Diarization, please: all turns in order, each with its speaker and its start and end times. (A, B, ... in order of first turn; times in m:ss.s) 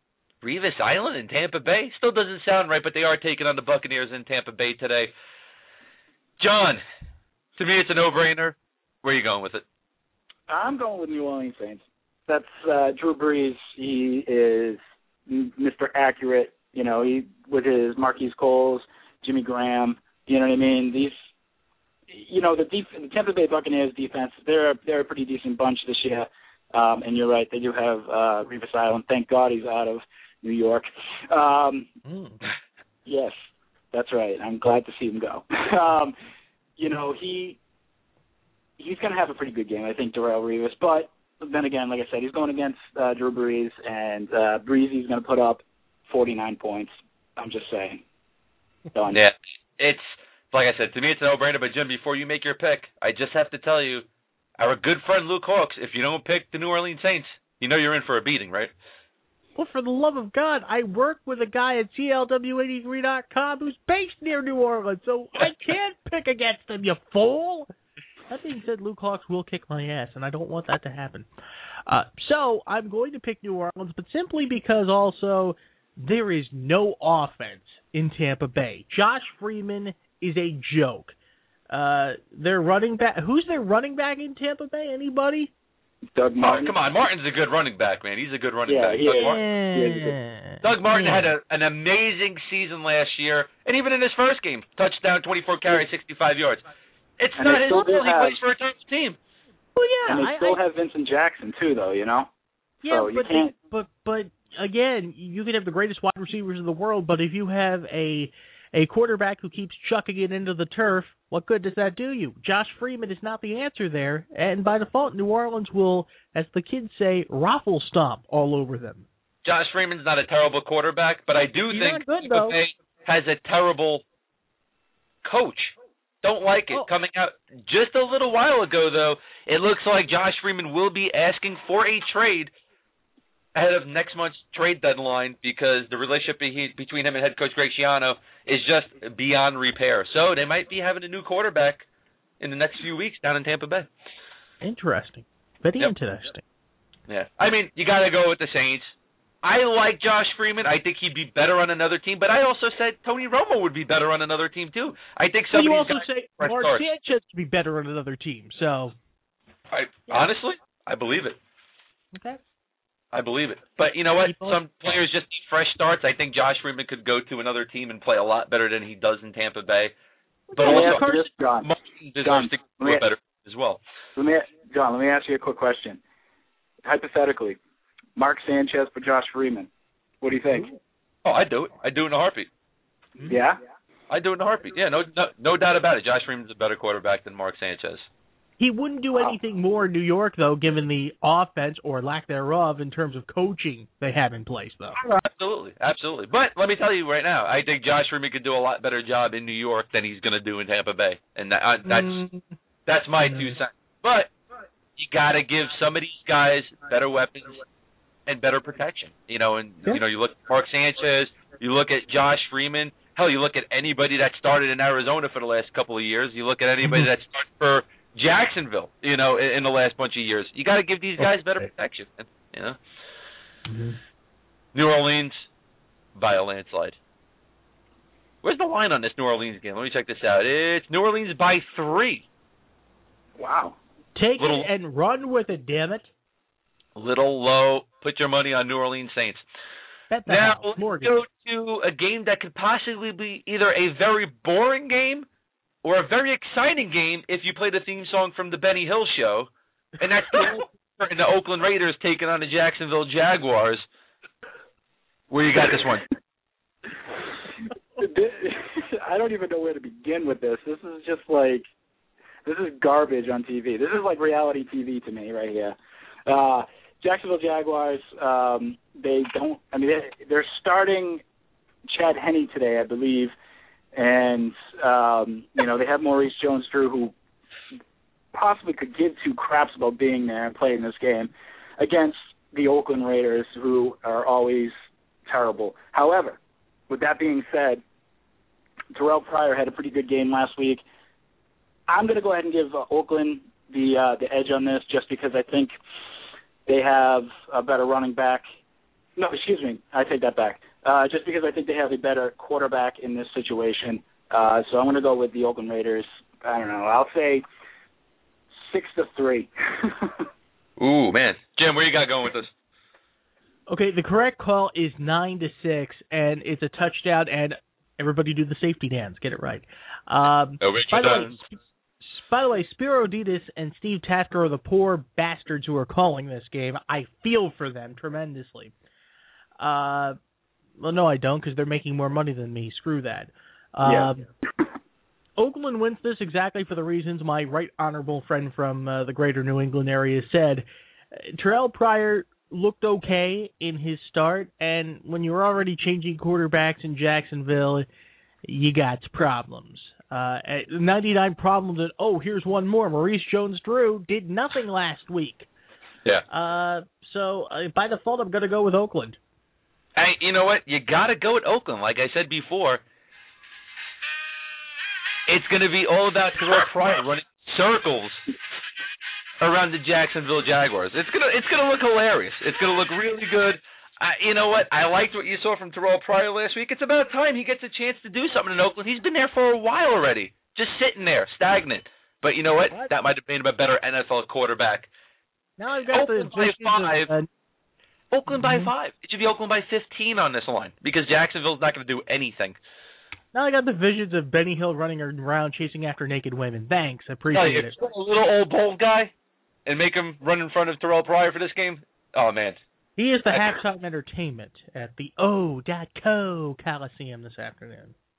0:00.4-0:05.1 A
0:06.4-0:06.8 A
0:07.6-0:09.6 A
0:10.5-0:21.1 B
0:22.1-0:31.9 B
0:32.1-0:32.4 C
0:33.1-0:33.3 B
0:33.9-0:36.2 B
0:36.8-0:37.6 B
0:38.8-0:48.0 B
0:48.9-0:49.2 B
0:49.1-0:54.1 A
0:54.6-0:58.7 A
0:59.6-1:07.7 C
1:08.3-1:11.3 C
1:11.9-1:21.2 C
1:21.7-1:25.5 C
1:26.2-1:26.7 B
1:26.4-1:29.4 A
1:28.7-1:30.2 B
1:29.1-1:31.3 C
1:30.6-1:36.6 A
1:37.2-1:39.2 A
1:37.4-1:38.4 B
1:39.8-1:40.6 C
1:40.1-1:42.3 B
1:42.8-1:59.1 C
1:42.9-1:43.5 B
1:59.4-2:04.0 A
2:01.7-2:02.6 C
2:05.2-2:12.5 A
2:13.6-2:21.8 A
2:22.4-2:23.9 A
2:24.6-2:26.4 C
2:27.1-2:28.9 A
2:29.4-2:36.8 A
2:35.5-2:39.0 C
2:39.7-2:41.4 A
2:42.2-2:42.4 C
2:43.1-2:49.9 A
2:44.2-2:44.6 C
2:50.5-2:51.1 A
2:50.5-2:51.3 C
2:50.6-2:51.7 B
2:51.6-2:53.8 A
2:52.2-2:53.0 B
2:54.2-2:56.0 B
2:56.8-2:57.6 B
2:58.2-2:59.7 B
3:00.2-3:00.7 B
3:01.2-3:02.5 A
3:03.3-3:03.6 B
3:04.1-3:08.1 A
3:08.6-3:15.0 C
3:15.0-3:22.2 A
3:21.9-3:22.5 C
3:22.9-3:24.3 A
3:23.3-3:23.6 C
3:25.0-3:27.6 A
3:28.3-3:42.8 A
3:41.2-3:41.6 C
3:43.7-3:44.0 C
3:44.7-3:45.5 A
3:46.2-3:47.0 A
3:48.4-3:52.2 A
3:53.4-3:53.8 B
3:54.2-3:56.1 C
3:54.4-3:54.7 A
3:57.0-3:59.4 A
4:00.1-4:01.2 C
4:00.3-4:05.3 A
4:05.8-4:13.8 A
4:15.3-4:16.0 A
4:18.0-4:21.6 B
4:22.4-4:25.8 B
4:26.3-4:31.2 B
4:31.9-4:33.3 B
4:33.9-4:37.1 B
4:38.3-4:44.7 B
4:45.3-4:46.4 B
4:46.9-4:47.8 B
4:48.9-4:50.8 B
4:51.9-4:55.7 B
4:56.7-4:58.4 B
4:59.2-5:07.4 B
5:08.5-5:10.3 B
5:10.8-5:12.5 A
5:13.7-5:28.7 C
5:20.6-5:21.4 A
5:29.6-5:30.2 C
5:30.8-5:34.2 C
5:33.8-5:34.1 B
5:35.4-5:47.9 C
5:48.4-5:55.5 C
5:56.3-5:59.2 C
6:00.0-6:02.8 A
6:05.3-6:08.2 A
6:09.4-6:24.9 A
6:25.6-6:27.3 C
6:25.9-6:27.1 A
6:28.1-6:32.6 A
6:28.3-6:28.7 C
6:33.3-6:37.8 C
6:37.3-6:39.1 A
6:39.7-6:42.6 A
6:43.0-6:48.0 C